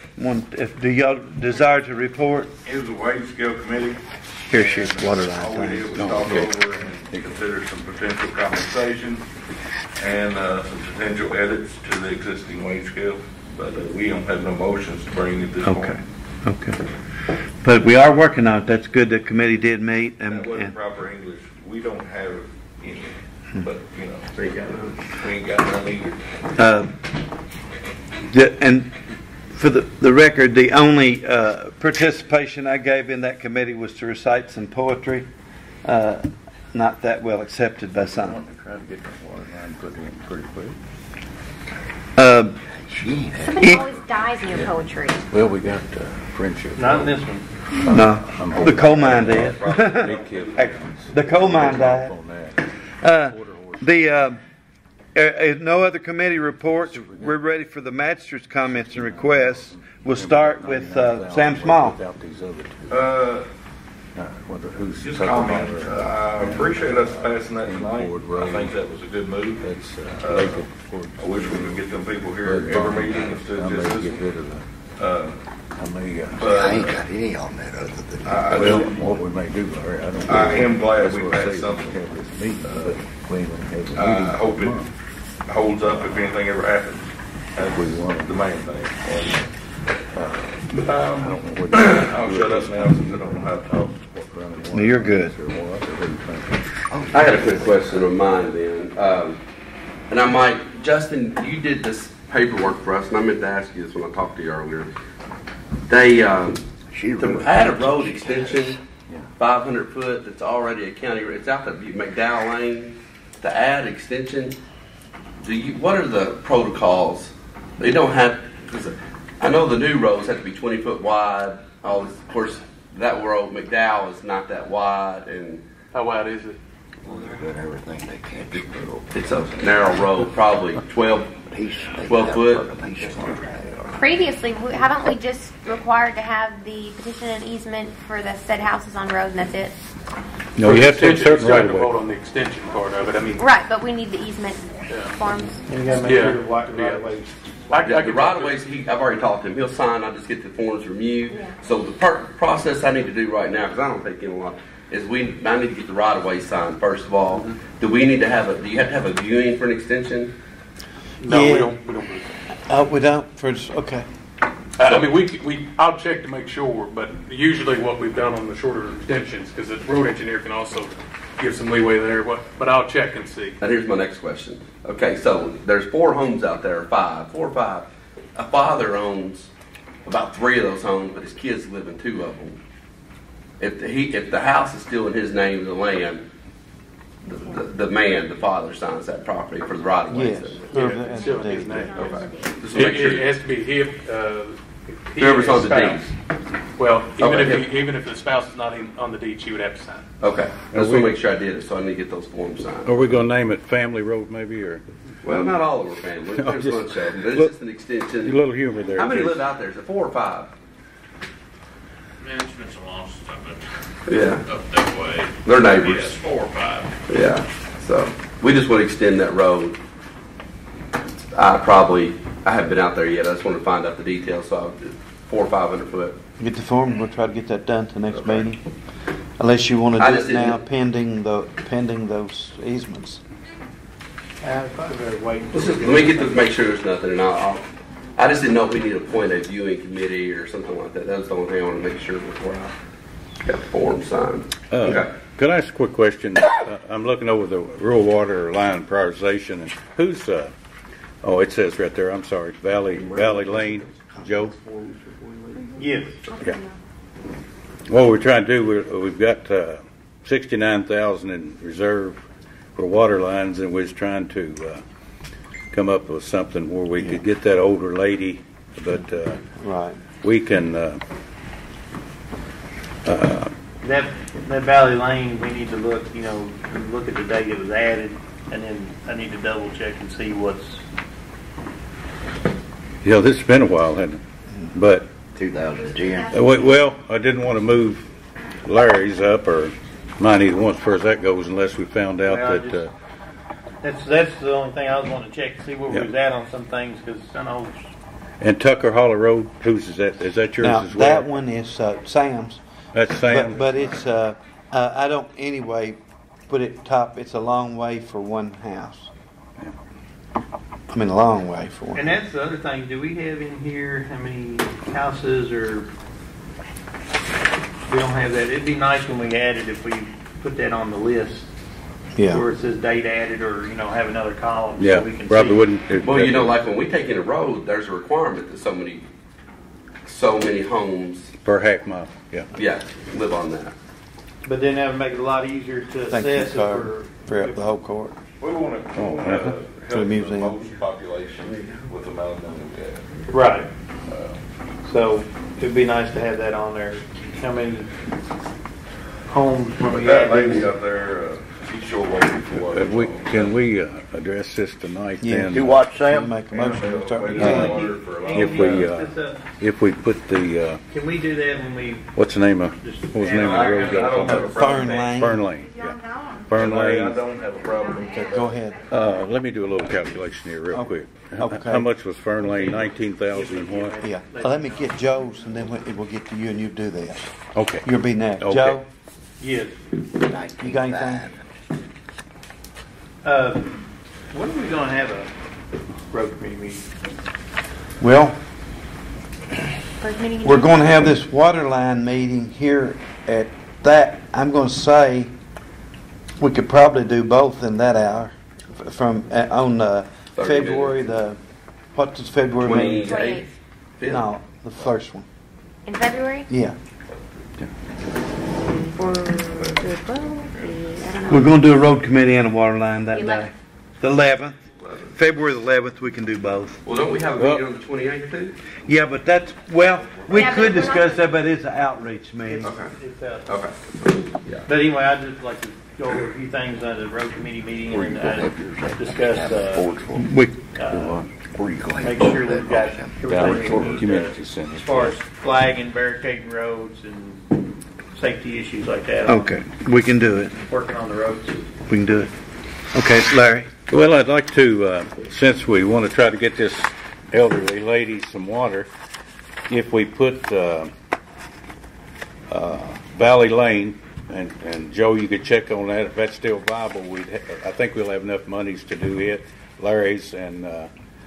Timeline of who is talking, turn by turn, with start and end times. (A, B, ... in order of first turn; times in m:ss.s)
0:00.2-0:02.5 A
0:02.6-0:09.2 B
0:04.5-0:05.9 A
0:06.0-0:06.5 C
0:07.1-0:07.4 C
0:10.0-0:16.0 B
0:15.6-0:16.8 A
0:17.6-0:20.8 A
0:20.3-0:24.3 B
0:24.3-0:25.0 D
0:25.1-0:26.2 B
0:26.6-0:26.9 A
0:28.3-0:29.0 A
0:29.6-0:35.3 A
0:35.8-0:38.4 A
0:38.0-0:40.8 C
0:42.2-0:42.6 A
0:42.9-0:43.8 E
0:43.4-0:45.2 F
0:44.5-0:44.8 C
0:45.3-0:52.6 C
0:46.8-0:47.5 G
0:47.9-0:52.1 A
0:48.4-0:51.5 B
0:53.0-0:54.4 A
0:53.2-0:54.1 C
0:55.2-1:02.0 A
0:56.9-0:57.4 C
0:58.7-1:03.2 C
1:02.9-1:03.4 B
1:04.2-1:08.8 C
1:05.0-1:14.3 B
1:09.6-1:11.9 C
1:12.4-1:14.6 C
1:15.0-1:15.4 B
1:15.8-1:16.6 C
1:16.4-1:17.0 B
1:16.4-1:18.9 E
1:18.2-1:19.2 B
1:18.5-1:24.9 C
1:20.3-1:23.0 B
1:23.9-1:24.8 B
1:25.5-1:29.5 B
1:27.7-1:28.4 C
1:30.2-1:36.6 C
1:30.7-1:34.1 B
1:34.7-1:35.3 A
1:36.9-1:38.1 E
1:37.1-1:39.4 D
1:40.1-1:44.9 D
1:45.9-1:46.6 D
1:46.9-1:48.8 E
1:47.2-1:48.8 D
1:49.4-1:54.6 D
1:55.4-2:05.6 D
2:05.9-2:06.6 H
2:07.0-2:09.0 E
2:09.1-2:11.3 D
2:11.5-2:14.0 E
2:12.1-2:13.4 D
2:14.0-2:19.8 F
2:20.6-2:22.0 C
2:20.6-2:23.4 H
2:23.4-2:26.0 F
2:24.9-2:25.1 H
2:25.7-2:27.3 G
2:26.0-2:27.1 H
2:27.7-2:28.7 H
2:27.8-2:40.3 D
2:31.3-2:31.6 F
2:41.2-2:42.3 H
2:41.3-2:41.8 A
2:42.7-2:44.1 A
2:44.8-2:53.6 H
2:53.6-2:59.5 D
3:00.1-3:02.6 D
3:03.6-3:06.2 D
3:07.2-3:10.8 D
3:10.1-3:12.1 A
3:10.7-3:16.1 H
3:10.8-3:12.6 F
3:11.9-3:13.3 D
3:15.2-3:16.1 D
3:16.8-3:20.1 H
3:17.2-3:17.7 D
3:20.2-3:23.0 D
3:20.7-3:21.2 C
3:22.8-3:24.8 C
3:25.2-3:28.4 D
3:26.4-3:27.5 C
3:28.2-3:29.5 C
3:29.0-3:30.5 D
3:32.2-3:33.6 I
3:34.1-3:34.4 D
3:34.3-3:36.9 I
3:35.4-3:36.2 D
3:37.1-3:39.8 D
3:41.3-3:46.2 D
3:46.4-3:48.6 A
3:48.1-3:48.5 D
3:49.4-3:53.2 A
3:50.0-3:50.6 D
3:54.4-3:56.5 G
3:55.5-3:57.6 D
3:58.2-4:02.7 D
4:03.4-4:05.1 D
4:04.7-4:10.5 C
4:11.2-4:14.5 C
4:12.9-4:16.1 D
4:15.6-4:16.8 F
4:15.8-4:16.2 G
4:17.9-4:22.2 C
4:22.8-4:24.8 C
4:25.7-4:29.4 C
4:29.6-4:30.0 A
4:30.2-4:31.0 C
4:33.0-4:33.5 C
4:33.8-4:40.8 G
4:43.0-4:44.2 C
4:44.7-4:45.1 C
4:45.4-4:46.4 E
4:46.3-4:48.1 C
4:48.6-4:52.9 C
4:52.2-4:52.9 G
4:53.8-4:57.8 G
4:58.4-5:01.3 C
5:00.6-5:02.6 A
5:02.9-5:03.6 C
5:03.3-5:09.1 A
5:10.9-5:12.2 A
5:12.0-5:15.9 G
5:17.9-5:21.5 G
5:22.2-5:22.4 A
5:22.3-5:25.7 G
5:24.8-5:26.6 C
5:26.0-5:29.0 D
5:30.1-5:31.3 D
5:31.4-5:32.5 C
5:32.6-5:33.8 D
5:34.4-5:37.6 G
5:36.1-5:38.2 A
5:38.4-5:43.3 B
5:39.0-5:39.6 C
5:39.9-5:40.6 A
5:41.4-5:41.9 D
5:43.3-5:43.7 G
5:44.1-5:44.4 B
5:44.8-5:47.9 G
5:49.3-5:50.7 G
5:49.8-5:53.6 B
5:52.7-5:55.8 C
5:55.2-5:57.8 A
5:55.5-5:56.4 E
5:56.5-5:58.9 B
5:57.2-5:59.5 G
5:58.3-6:00.8 C
6:00.9-6:02.1 G
6:02.2-6:07.2 C
6:02.8-6:04.4 G
6:03.3-6:05.2 B
6:04.3-6:05.4 A
6:06.5-6:08.5 B
6:08.2-6:08.8 A
6:08.9-6:14.0 C
6:10.7-6:11.9 A
6:12.4-6:14.9 G
6:14.0-6:17.3 A
6:17.6-6:17.9 C
6:17.8-6:18.8 A
6:18.4-6:18.8 C
6:19.4-6:19.8 G
6:20.2-6:21.4 E
6:20.6-6:21.3 A
6:23.2-6:23.8 G
6:24.3-6:25.3 G
6:26.1-6:26.9 G
6:28.0-6:28.4 A
6:30.0-6:31.2 F
6:30.4-6:35.3 A
6:36.4-6:41.4 A
6:40.4-6:41.1 D
6:42.0-6:43.2 A
6:42.6-6:44.3 D
6:42.7-6:43.5 F
6:44.1-6:45.3 A
6:45.8-6:46.5 F
6:46.5-6:46.8 A
6:48.6-6:51.8 F
6:49.6-6:49.8 B
6:50.4-6:51.0 B
6:51.3-6:54.6 A
6:53.1-6:53.5 F
6:54.8-6:55.1 B
6:55.1-6:56.8 A
6:56.8-6:58.6 D
6:57.4-6:57.6 C
6:58.9-7:02.7 A
7:00.3-7:01.4 F
7:02.5-7:03.6 G
7:02.6-7:02.9 D
7:03.5-7:04.7 D
7:04.7-7:09.9 G
7:07.9-7:10.3 E
7:10.2-7:10.6 A
7:10.8-7:11.2 G
7:10.9-7:11.3 C
7:11.5-7:14.1 E
7:12.0-7:19.5 G
7:13.2-7:15.2 C
7:19.3-7:20.6 A
7:20.7-7:21.6 G
7:21.9-7:22.3 A
7:22.9-7:23.7 A
7:23.9-7:28.9 C
7:29.7-7:30.9 C
7:32.5-7:40.9 C